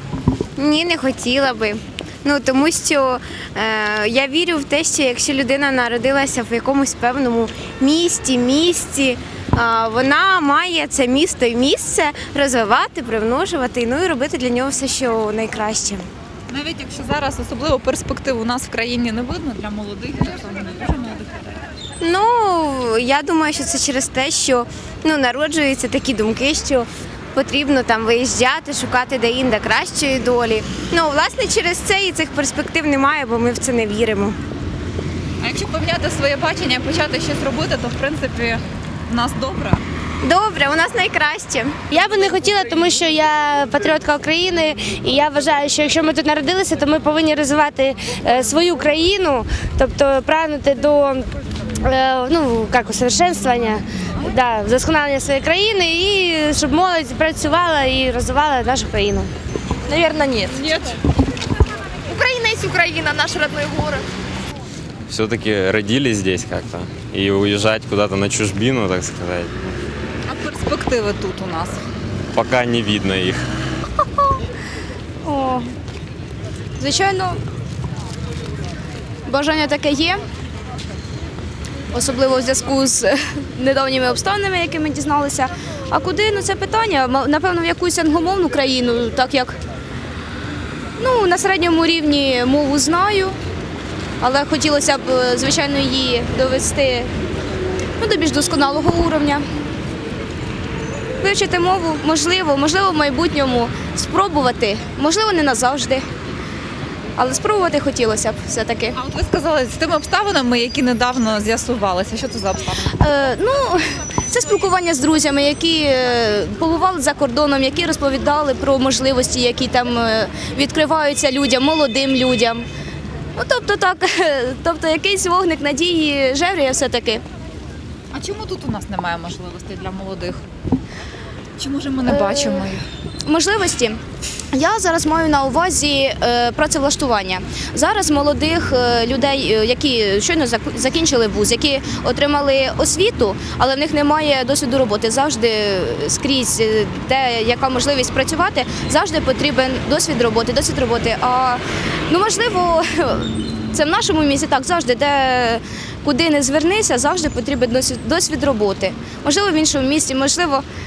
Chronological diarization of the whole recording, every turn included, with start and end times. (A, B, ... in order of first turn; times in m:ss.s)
0:00.6-0:16.1 A
0:16.5-0:21.6 B
0:22.0-0:34.4 A
0:35.4-0:39.8 B
0:40.2-0:41.8 A
0:41.9-0:51.3 C
0:51.8-0:59.3 C
0:59.9-1:00.7 D
1:02.1-1:04.0 E
1:02.2-1:03.8 D
1:05.1-1:09.7 F
1:10.3-1:11.8 B
1:12.3-1:13.4 F
1:15.2-1:15.7 D
1:16.8-1:17.4 D
1:19.2-1:20.2 D
1:21.9-1:29.6 D
1:31.0-1:33.4 D
1:34.2-1:37.1 D
1:38.0-1:39.4 D
1:41.2-1:46.0 D
1:47.2-1:49.0 D
1:48.9-1:53.0 B
1:53.0-2:02.7 D
2:03.3-2:07.2 D
2:08.1-2:10.4 B
2:11.6-2:12.8 B
2:12.1-2:12.7 D
2:13.2-2:14.0 D
2:14.5-2:40.6 D